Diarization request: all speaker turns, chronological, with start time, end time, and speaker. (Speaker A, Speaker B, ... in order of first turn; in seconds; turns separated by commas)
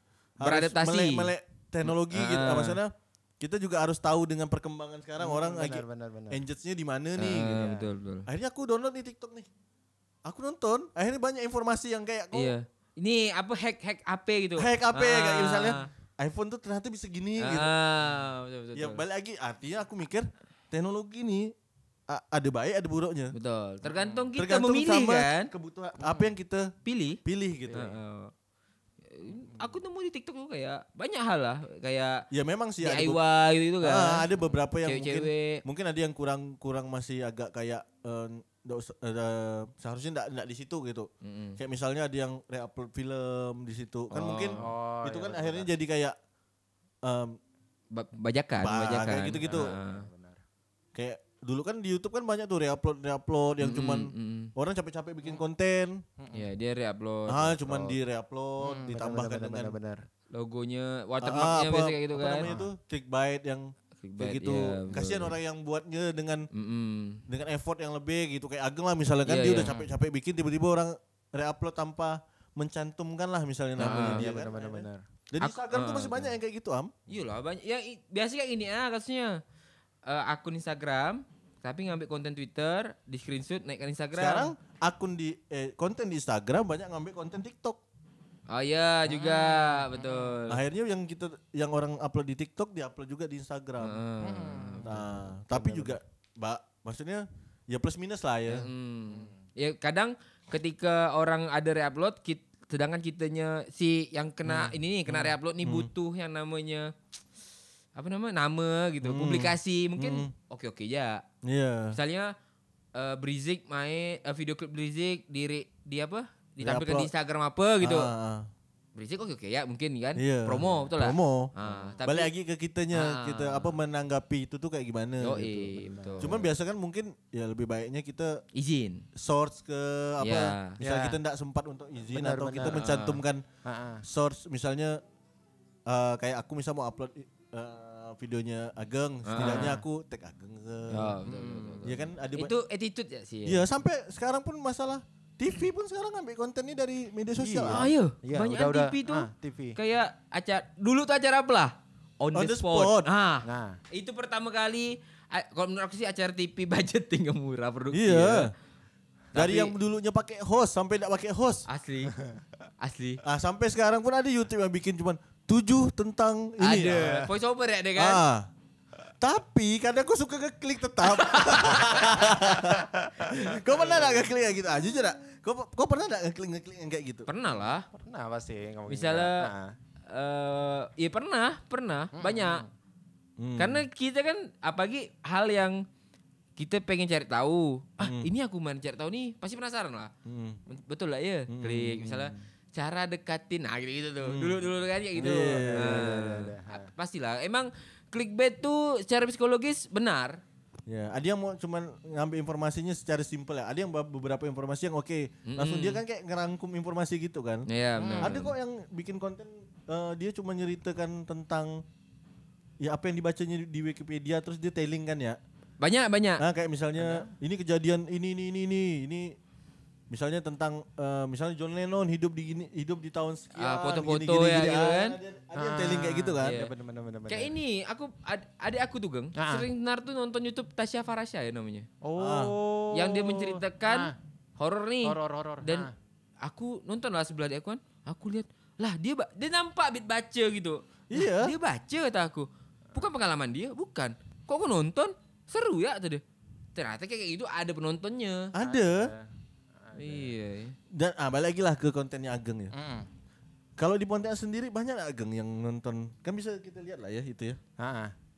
Speaker A: 0.4-7.7, Speaker B: 0.4-1.3, Speaker B: 1.8-2.8, Speaker C: 5.2-6.4, Speaker B: 7.2-8.3, Speaker A: 8.3-9.5, Speaker A: 10.2-12.5, Speaker B: 12.3-15.9, Speaker A: 14.6-17.7, Speaker B: 17.4-19.0, Speaker A: 18.7-21.5, Speaker A: 22.1-23.3, Speaker B: 23.3-25.5, Speaker C: 23.9-24.3, Speaker A: 24.4-26.7, Speaker B: 26.8-28.3, Speaker A: 27.2-27.9, Speaker B: 29.1-32.2, Speaker A: 32.3-33.2, Speaker B: 32.8-34.2, Speaker A: 33.8-46.1, Speaker B: 34.8-35.6, Speaker B: 41.2-41.6, Speaker B: 44.1-44.6, Speaker C: 44.6-45.7, Speaker A: 47.0-47.4, Speaker B: 47.9-50.1, Speaker A: 48.6-49.7, Speaker C: 49.3-50.4, Speaker A: 50.9-56.0, Speaker B: 53.6-54.5, Speaker C: 56.2-56.5, Speaker B: 56.3-57.6, Speaker A: 57.3-59.7, Speaker C: 57.6-58.0, Speaker C: 58.6-60.0, Speaker B: 60.3-62.5, Speaker A: 61.2-66.5, Speaker C: 62.4-62.7, Speaker B: 64.0-65.3, Speaker B: 66.5-67.2, Speaker A: 67.3-77.0, Speaker B: 69.2-69.7, Speaker C: 69.6-69.8, Speaker B: 73.8-74.2, Speaker C: 73.8-75.0, Speaker B: 75.4-76.3, Speaker B: 77.1-79.4, Speaker B: 80.0-84.5, Speaker A: 84.2-87.8, Speaker B: 88.5-90.6, Speaker C: 89.1-90.3, Speaker A: 90.5-94.0, Speaker B: 93.8-95.0, Speaker C: 94.2-96.0, Speaker A: 94.8-98.7, Speaker B: 98.5-106.9, Speaker C: 99.1-99.3, Speaker A: 105.1-105.9, Speaker B: 107.9-111.2, Speaker A: 109.0-110.3, Speaker A: 111.4-112.0, Speaker B: 111.9-112.3, Speaker B: 112.9-118.1, Speaker A: 116.6-117.1, Speaker A: 117.8-118.5, Speaker B: 118.9-122.3, Speaker A: 120.2-121.5, Speaker C: 121.6-122.0, Speaker A: 122.0-128.4, Speaker B: 122.9-123.8, Speaker B: 125.2-126.4, Speaker C: 125.7-126.5, Speaker B: 128.5-129.1, Speaker A: 129.1-133.4, Speaker B: 130.2-130.8, Speaker C: 130.8-131.2, Speaker C: 132.1-132.8, Speaker B: 132.6-133.2, Speaker C: 133.6-134.0, Speaker A: 134.0-135.0, Speaker A: 135.9-141.2, Speaker B: 139.2-139.8, Speaker C: 139.4-139.8, Speaker B: 140.9-143.6, Speaker C: 141.2-141.8, Speaker A: 141.8-142.5, Speaker A: 143.4-147.9, Speaker C: 147.4-149.8, Speaker B: 147.7-158.5, Speaker A: 152.3-153.1, Speaker C: 153.4-153.8, Speaker A: 157.9-158.5, Speaker B: 159.3-159.7, Speaker A: 159.3-161.7, Speaker B: 161.7-162.1, Speaker B: 162.8-163.2, Speaker A: 163.2-167.3, Speaker B: 166.6-168.2, Speaker A: 168.0-168.5, Speaker A: 169.2-177.3, Speaker B: 171.2-172.0, Speaker C: 172.6-174.2, Speaker B: 177.3-177.9, Speaker C: 177.9-179.8, Speaker B: 178.9-179.5, Speaker B: 180.1-182.6, Speaker C: 182.1-182.7, Speaker A: 183.4-183.8, Speaker B: 183.6-185.8, Speaker B: 186.6-190.1, Speaker A: 188.0-188.3, Speaker A: 190.2-190.6, Speaker B: 190.7-200.4, Speaker A: 191.5-192.4, Speaker A: 194.2-196.1, Speaker C: 195.2-196.9, Speaker A: 200.9-207.7, Speaker B: 205.4-206.0, Speaker B: 207.7-208.5, Speaker C: 208.0-208.4, Speaker A: 208.2-211.8, Speaker A: 212.8-215.4, Speaker B: 215.8-216.4, Speaker A: 216.4-219.3, Speaker C: 217.0-217.3, Speaker A: 220.1-226.6, Speaker B: 223.6-225.2, Speaker C: 225.5-227.5, Speaker B: 226.4-226.7, Speaker B: 227.3-231.9, Speaker C: 229.3-229.7, Speaker C: 232.0-234.1, Speaker A: 232.2-232.5, Speaker B: 232.9-235.9, Speaker C: 235.0-235.9, Speaker B: 236.4-246.2, Speaker A: 241.1-241.5, Speaker B: 246.7-248.5, Speaker A: 248.5-249.1, Speaker C: 248.6-249.3, Speaker C: 249.8-250.3, Speaker B: 249.9-250.8, Speaker A: 250.9-252.7, Speaker C: 252.7-253.1, Speaker A: 253.8-257.6, Speaker C: 257.8-258.1